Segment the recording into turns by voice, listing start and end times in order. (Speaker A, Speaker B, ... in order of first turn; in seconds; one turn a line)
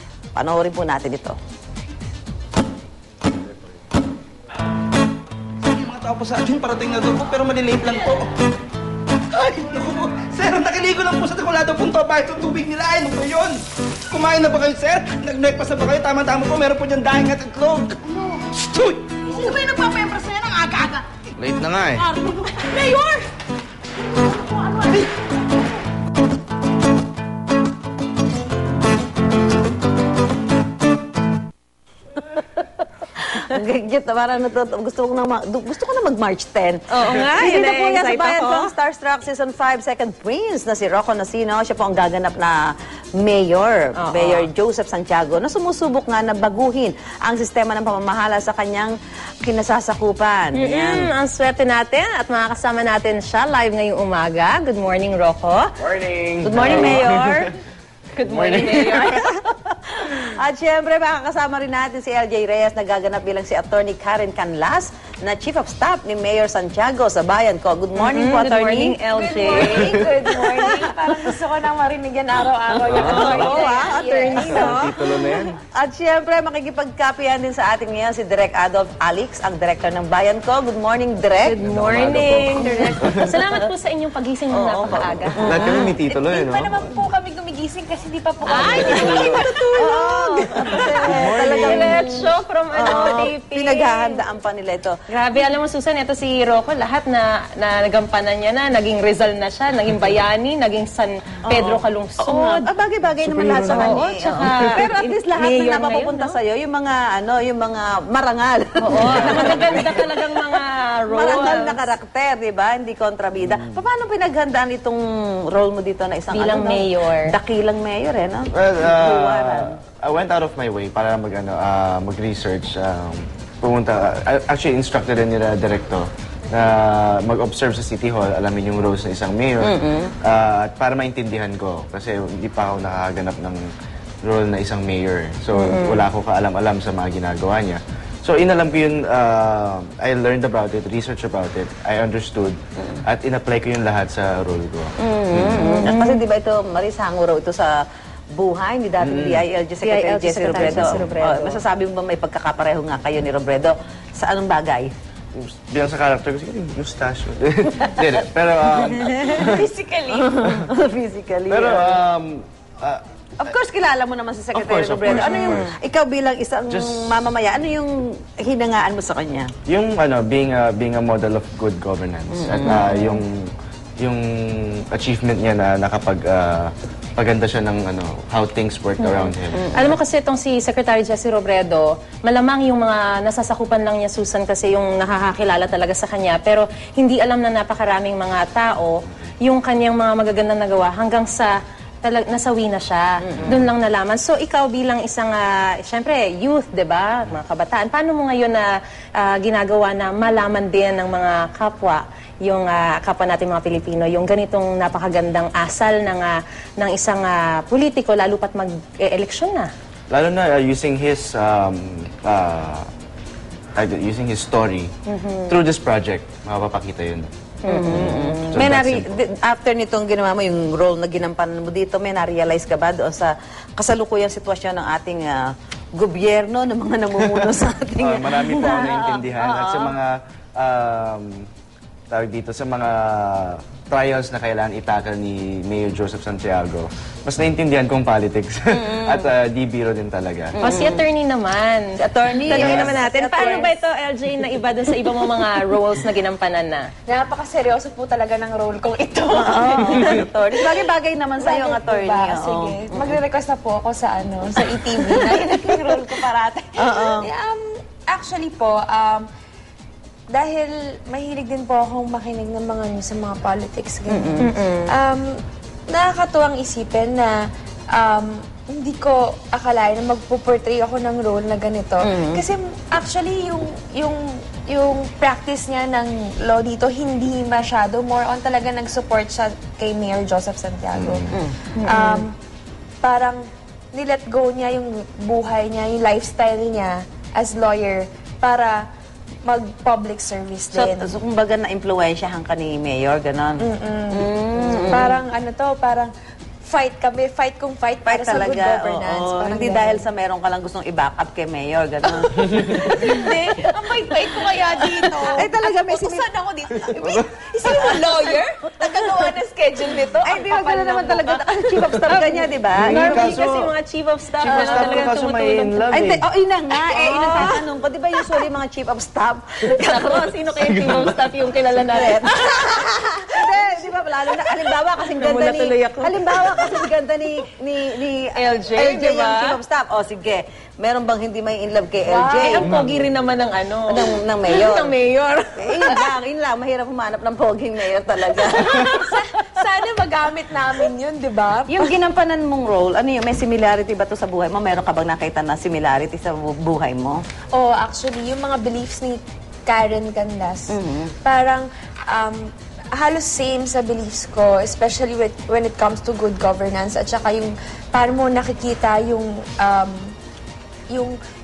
Speaker A: 0.3-1.4
Speaker B: 5.7-8.3
Speaker B: 9.3-18.0
Speaker B: 18.6-19.2
Speaker A: 19.7-20.6
Speaker C: 20.6-20.9
Speaker D: 21.4-22.0
Speaker C: 22.4-23.1
Speaker A: 33.2-51.1
Speaker E: 36.9-38.7
Speaker E: 44.0-44.5
Speaker E: 50.5-55.7
Speaker D: 55.9-57.4
Speaker A: 56.4-57.6
Speaker E: 58.1-59.2
Speaker D: 58.3-59.0
Speaker A: 58.4-69.0
Speaker E: 68.0-70.0
Speaker C: 69.1-75.2
Speaker A: 72.8-81.6
Speaker D: 72.9-73.7
Speaker E: 74.0-75.1
Speaker D: 74.4-75.6
Speaker E: 81.4-85.6
Speaker D: 81.6-83.3
Speaker A: 82.6-83.6
Speaker A: 84.5-86.0
Speaker D: 85.4-87.0
Speaker C: 85.6-91.6
Speaker E: 88.4-88.9
Speaker D: 88.8-89.4
Speaker A: 88.9-95.0
Speaker D: 91.1-91.9
Speaker E: 91.6-94.2
Speaker E: 95.1-102.7
Speaker A: 101.5-110.6
Speaker D: 103.3-103.8
Speaker E: 103.6-106.4
Speaker E: 108.8-111.9
Speaker D: 109.0-109.8
Speaker A: 111.1-119.8
Speaker E: 116.3-117.4
Speaker D: 118.5-133.6
Speaker A: 129.6-130.1
Speaker D: 134.2-145.7
Speaker E: 135.6-136.1
Speaker A: 145.0-147.8
Speaker E: 145.6-146.2
Speaker A: 148.3-154.9
Speaker D: 149.0-149.5
Speaker E: 149.8-151.6
Speaker D: 155.3-159.7
Speaker A: 157.8-158.1
Speaker E: 158.7-160.5
Speaker A: 160.1-162.0
Speaker D: 161.5-163.5
Speaker A: 163.4-169.5
Speaker D: 164.5-165.7
Speaker E: 165.1-165.7
Speaker D: 166.7-167.1
Speaker D: 169.7-179.9
Speaker A: 172.3-172.9
Speaker E: 172.7-173.2
Speaker E: 179.0-191.5
Speaker A: 179.5-179.9
Speaker E: 192.0-198.7
Speaker A: 193.2-193.6
Speaker E: 199.2-209.7
Speaker D: 210.1-212.9
Speaker D: 213.8-217.3
Speaker E: 215.1-215.6
Speaker E: 217.6-218.6
Speaker A: 217.7-230.0
Speaker D: 218.4-219.1
Speaker D: 227.3-231.4
Speaker D: 232.1-240.6
Speaker A: 238.7-239.3
Speaker E: 240.6-241.8
Speaker A: 240.6-241.1
Speaker A: 242.0-243.7
Speaker E: 242.5-246.9
Speaker D: 242.5-243.0
Speaker C: 247.1-250.9
Speaker A: 249.4-253.2
Speaker C: 251.4-259.3
Speaker A: 254.9-256.0
Speaker A: 256.8-257.3
Speaker C: 260.3-265.3
Speaker A: 264.1-264.5
Speaker E: 264.4-264.9
Speaker C: 265.9-281.2
Speaker A: 272.0-272.4
Speaker D: 280.9-281.4
Speaker A: 281.3-281.6
Speaker E: 281.8-282.2
Speaker C: 281.8-282.3
Speaker C: 283.0-288.8
Speaker C: 289.4-291.1
Speaker A: 290.7-295.2
Speaker C: 293.6-296.1
Speaker C: 296.6-300.1
Speaker A: 298.1-303.1
Speaker C: 302.3-311.4
Speaker E: 304.1-304.6
Speaker A: 305.4-306.2
Speaker D: 306.9-307.2
Speaker A: 310.2-313.2
Speaker E: 312.0-315.9
Speaker D: 312.8-313.7
Speaker D: 314.4-316.2
Speaker C: 314.5-315.1
Speaker A: 315.9-320.4
Speaker E: 316.9-317.6
Speaker E: 319.6-323.6
Speaker D: 320.7-321.2
Speaker A: 321.9-332.8
Speaker E: 324.3-326.8
Speaker E: 328.3-329.6
Speaker C: 332.1-332.9
Speaker E: 332.4-336.1
Speaker A: 333.9-334.9
Speaker A: 335.6-339.2
Speaker C: 338.4-341.9
Speaker A: 341.7-347.2
Speaker C: 347.5-360.1
Speaker A: 350.7-351.1
Speaker C: 360.9-361.2